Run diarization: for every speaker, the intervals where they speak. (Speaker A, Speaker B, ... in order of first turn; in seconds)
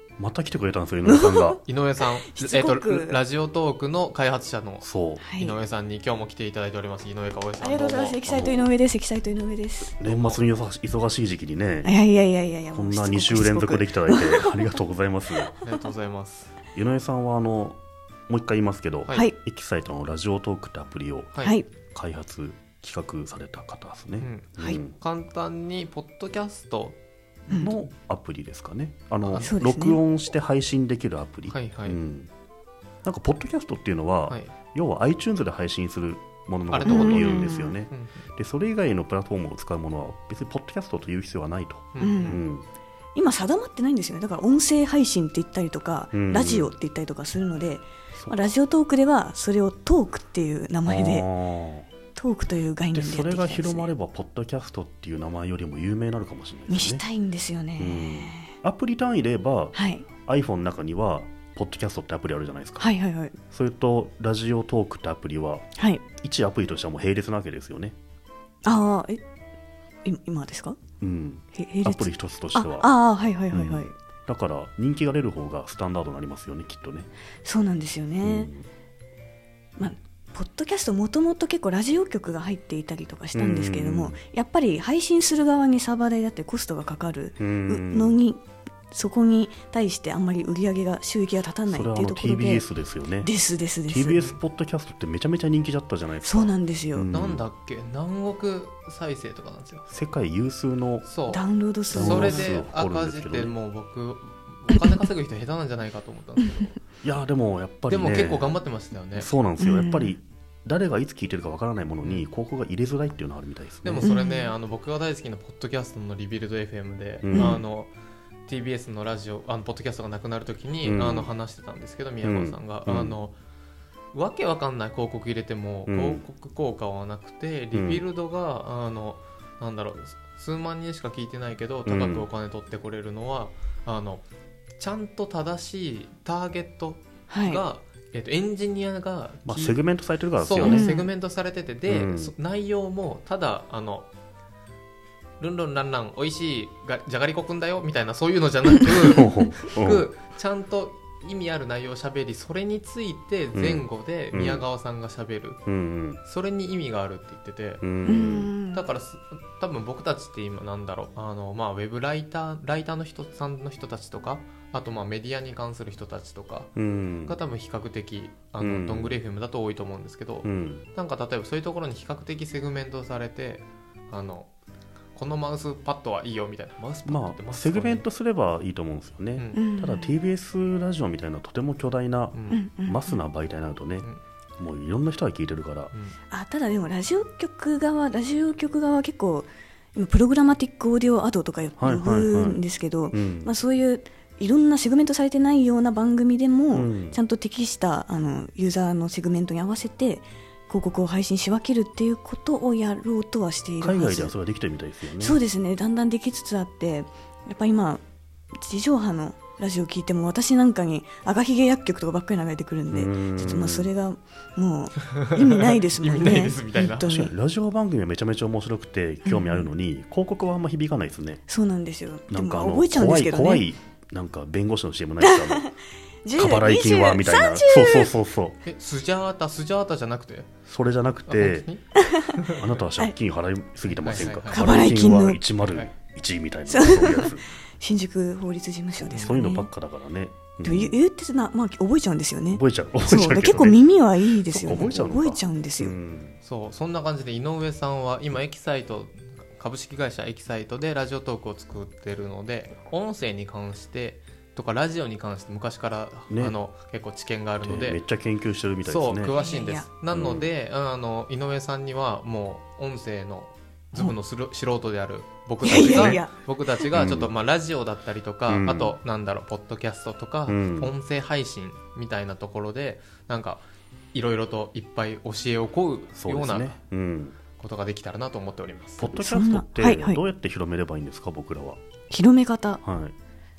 Speaker A: 0.2-1.6, 4.8-5.2, 8.3-8.7, 10.0-11.9, 12.7-15.6, 16.7-21.4, 21.9-24.9, 27.5-32.3, 33.0-42.6, 46.1-46.7, 48.1-48.5, 50.9-51.9, 52.9-57.0, 57.8-62.9, 63.5-68.0, 71.0-72.9, 73.5-77.1, 78.2-78.7, 83.3-84.2, 87.4-88.2, 91.7-93.3, 93.9-97.4, 99.9-101.1, 101.9-103.5, 107.0-108.6, 109.2-114.1, 117.2-117.6, 120.8-121.3, 122.2-123.2, 125.9-126.2, 127.7-128.0, 131.8-132.3, 139.4-140.9, 141.9-142.3, 149.1-150.1, 153.5-154.6, 155.7-156.2, 157.8-158.5, 166.8-167.4, 168.6-169.2, 170.4-170.8, 177.1-184.1, 184.6-185.9, 191.8-192.6, 193.1-193.5, 196.7-197.2, 203.8-205.4, 212.9-213.9, 217.0-221.4, 222.3-225.7, 226.3-228.6, 230.7-231.7, 232.6-237.4, 239.0-241.0, 242.5-243.9, 244.4-246.4, 256.3-256.6, 257.6-259.3, 260.1-260.5, 265.7-266.2, 266.9-267.3, 268.5-268.9, 270.5-270.9, 276.2-277.4, 279.0-281.8, 282.8-283.1
Speaker B: 1.1-3.2, 5.2-5.6, 7.6-10.0, 11.8-14.7, 21.4-21.7, 27.5-27.7, 29.4-30.0, 36.9-37.8, 42.0-42.4, 43.1-51.3, 52.1-53.9, 56.7-58.5, 59.7-60.1, 62.8-63.4, 65.8-66.0, 68.6-69.2, 70.0-70.8, 71.5-73.9, 77.4-78.5, 79.8-92.7, 93.2-94.2, 96.2-97.1, 101.3-102.6, 109.6-110.2, 114.0-114.5, 117.3-117.6, 137.3-137.6, 140.6-141.1, 158.0-158.8, 179.5-180.2, 182.5-183.2, 186.3-204.3, 205.2-208.0, 208.6-217.3, 219.2-219.7, 221.5-223.7, 225.2-225.7, 226.2-228.1, 231.9-232.2, 234.5-235.4, 236.7-239.7, 240.6-245.9, 259.3-259.9, 265.6-266.4, 279.1-280.2, 282.1-282.8
Speaker C: 1.6-4.8, 5.3-8.2, 10.0-10.4, 15.6-16.5, 19.0-19.3, 24.2-27.0, 29.2-29.5, 31.5-32.0, 36.7-38.3, 41.9-42.4, 97.1-99.8, 101.0-106.8, 107.9-109.3, 113.8-117.9, 118.5-123.3, 124.1-134.2, 134.8-139.8, 140.3-144.1, 145.4-155.6, 156.2-157.8, 158.7-166.7, 167.2-174.5, 175.2-178.1, 179.3-179.6, 182.3-182.6, 215.1-217.1, 228.6-230.5, 231.3-232.8, 233.9-234.9, 235.6-235.9, 244.6-245.1, 246.4-258.0, 258.8-276.8, 277.6-279.1